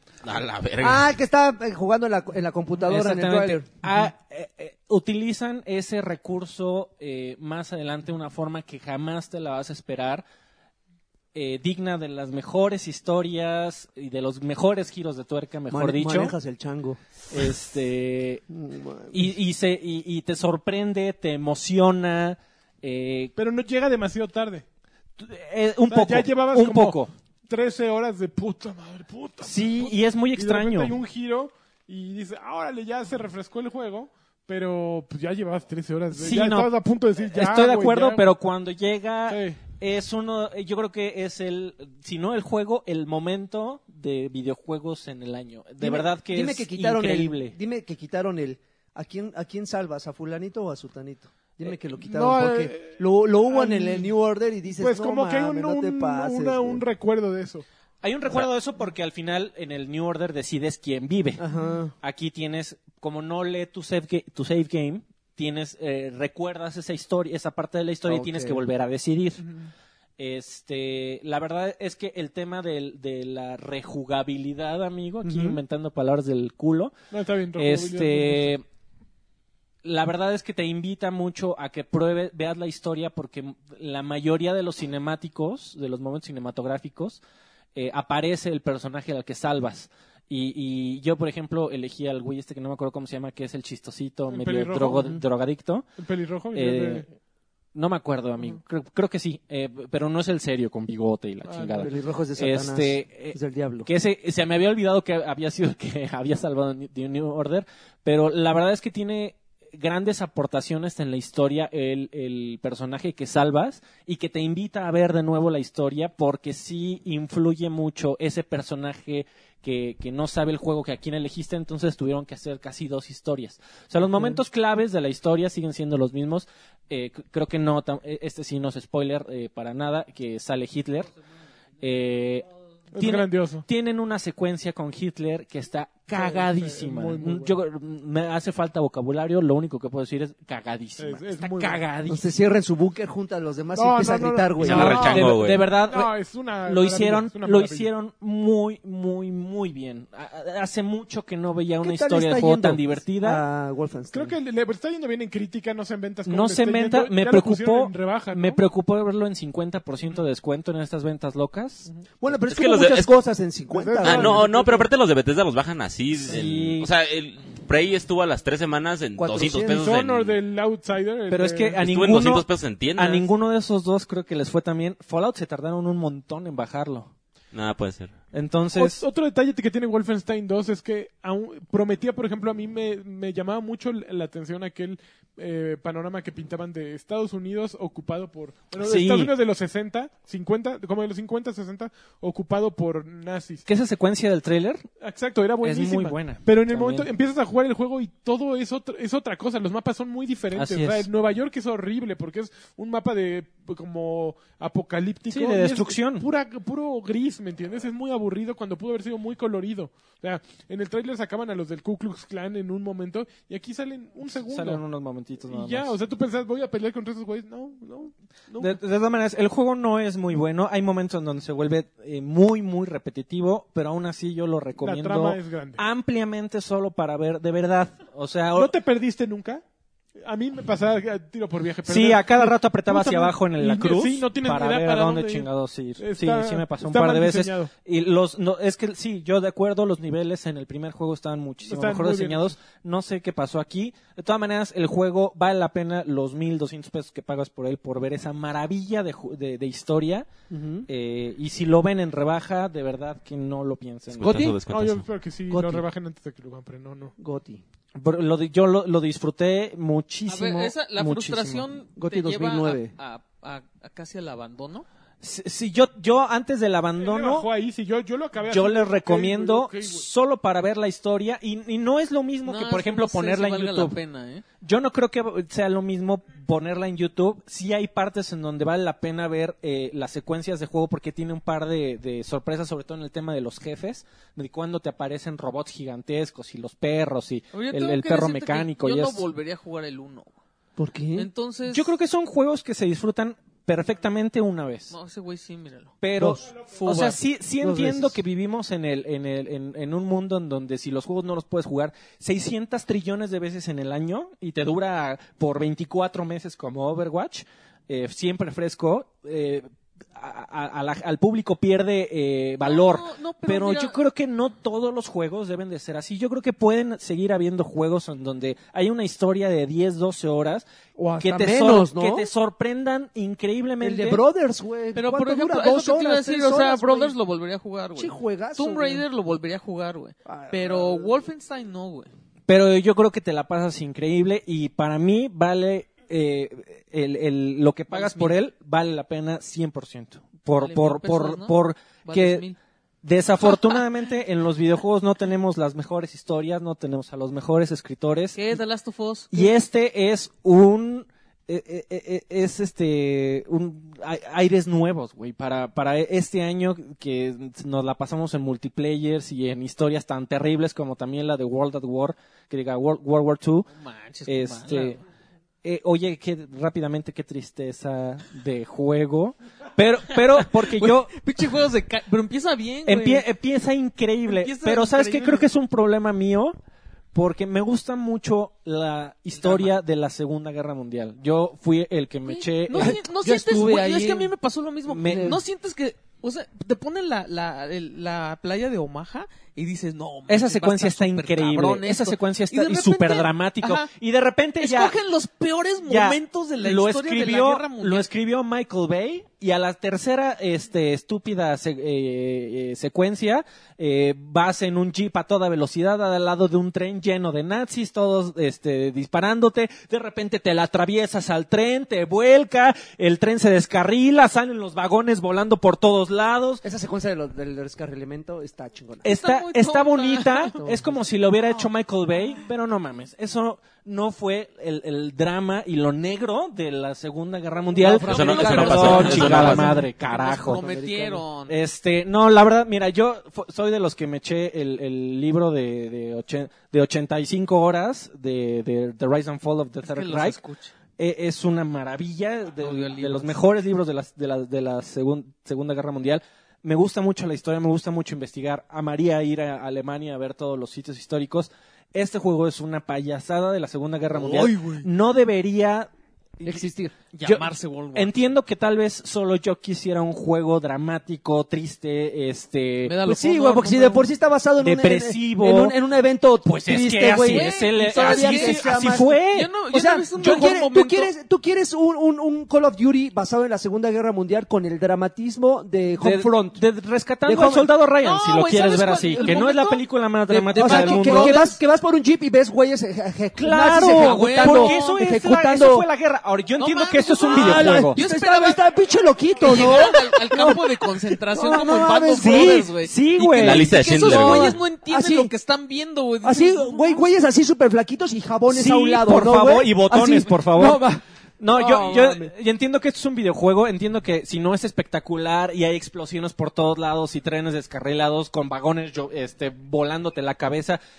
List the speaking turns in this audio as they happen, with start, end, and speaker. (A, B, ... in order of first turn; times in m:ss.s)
0:00.2-0:01.1 A
0:00.8-0:03.7 B
0:02.9-0:10.2 C
0:11.3-0:16.4 C
0:15.7-0:17.0 B
0:17.3-0:18.4 C
0:18.5-0:19.3 B
0:19.1-0:23.3 C
0:23.4-0:24.6 D
0:25.2-0:27.1 C
0:25.9-0:38.3 D
0:29.4-0:31.0 C
0:36.1-0:47.6 C
0:39.3-0:39.6 D
0:45.8-0:56.8 B
0:52.0-0:54.1 D
0:54.8-0:57.6 D
0:58.0-1:01.4 C
1:01.4-1:01.9 B
1:02.0-1:09.5 C
1:08.1-1:08.6 B
1:10.2-1:16.9 C
1:15.2-1:15.6 B
1:17.1-1:18.5 D
1:17.5-1:18.6 C
1:19.8-1:27.2 C
1:27.8-1:35.9 C
1:34.3-1:35.2 D
1:36.0-1:37.1 D
1:36.5-1:37.1 C
1:37.7-2:11.1 C
1:41.4-1:41.9 D
1:41.8-1:43.9 B
2:11.8-2:22.3 C
2:12.9-2:13.7 D
2:16.1-2:17.6 D
2:21.0-2:21.8 D
2:22.1-2:25.2 B
2:23.8-2:27.9 D
2:24.6-2:33.4 C
2:24.6-2:25.6 A
2:31.8-2:34.4 B
2:34.1-2:38.6 D
2:36.3-2:41.9 C
2:42.2-2:44.5 B
2:42.5-2:43.1 A
2:43.7-2:44.9 D
2:44.0-2:50.4 A
2:46.2-2:46.9 C
2:49.2-2:49.9 B
2:49.7-2:51.9 D
2:51.3-2:57.1 C
2:51.8-2:53.3 A
2:57.5-2:58.2 A
2:58.3-2:59.0 C
2:58.8-3:13.7 D
3:08.8-3:09.3 C
3:13.7-3:14.8 C
3:15.0-3:34.8 D
3:15.6-3:17.1 C
3:20.6-3:21.1 C
3:25.3-3:26.3 C
3:34.3-3:35.9 C
3:35.5-3:38.8 D
3:38.6-3:48.7 C
3:44.8-3:45.8 D
3:48.5-3:49.6 D
3:50.2-3:57.7 D
3:51.8-4:10.3 C
4:01.6-4:02.6 D
4:10.5-4:10.9 B
4:10.9-4:14.5 C
4:14.1-4:15.1 A
4:14.2-4:14.6 B
4:14.7-4:17.1 D
4:15.5-4:15.8 B
4:17.2-4:17.6 B
4:18.0-4:21.7 C
4:20.3-4:24.9 E
4:22.0-4:22.9 B
4:25.2-4:27.5 C
4:27.0-4:30.1 D
4:28.4-4:34.0 C
4:32.4-4:34.4 E
4:34.6-4:49.2 C
4:47.5-4:50.3 E
4:50.8-4:51.3 B
4:51.2-4:51.9 E
4:51.7-4:54.9 C
4:54.9-4:56.0 E
4:56.0-5:20.7 C
4:56.2-4:56.5 B
4:56.6-4:57.2 E
4:57.6-4:58.2 B
5:12.6-5:14.0 E
5:21.0-5:22.3 B
5:21.2-5:24.2 C
5:23.8-5:27.2 B
5:25.0-5:32.1 E
5:28.0-5:29.0 B
5:30.2-5:31.2 B
5:32.5-5:42.5 C
5:37.9-5:38.4 E
5:40.6-5:42.6 E
5:43.0-5:48.6 C
5:48.4-5:49.5 E
5:49.3-6:03.7 C
6:03.7-6:05.0 E
6:04.3-6:05.0 C
6:05.6-6:11.1 C
6:10.4-6:13.3 E
6:12.9-6:16.6 C
6:14.3-6:15.5 E
6:17.1-6:23.0 C
6:19.4-6:19.7 E
6:22.2-6:33.9 E
6:22.8-6:24.3 B
6:24.9-6:25.4 C
6:25.0-6:25.4 B
6:30.3-6:35.0 C
6:34.6-6:38.1 E
6:35.8-6:56.6 C
6:56.6-6:59.1 B
6:59.0-7:10.7 C
6:59.0-7:00.6 E
7:00.6-7:01.0 B
7:07.7-7:11.2 B
7:07.8-7:11.6 E
7:08.0-7:09.8 A
7:11.5-7:20.4 C
7:19.8-7:20.8 E
7:21.0-7:35.9 C
7:22.6-7:23.4 E
7:34.1-7:34.9 B
7:36.4-7:37.0 B
7:37.1-7:38.3 E
7:37.2-7:43.0 C
7:42.8-7:44.1 E
7:43.0-7:56.6 B
7:44.6-7:45.8 C
7:46.4-7:49.5 C
7:47.2-7:51.1 E
7:50.2-7:50.6 C
7:56.0-8:01.5 C
7:57.2-7:57.7 B
7:58.0-8:01.6 E
7:59.1-7:59.4 B
8:00.5-8:05.9 B
8:03.4-8:08.0 C
8:03.8-8:05.0 E
8:06.6-8:08.6 E
8:07.3-8:12.7 B
8:09.4-8:17.1 E
8:11.5-8:13.8 C
8:13.4-8:14.6 A
8:14.0-8:15.3 B
8:16.2-8:21.0 B
8:18.5-8:20.9 C
8:21.4-8:30.8 C
8:21.5-8:22.3 B
8:21.5-8:22.0 E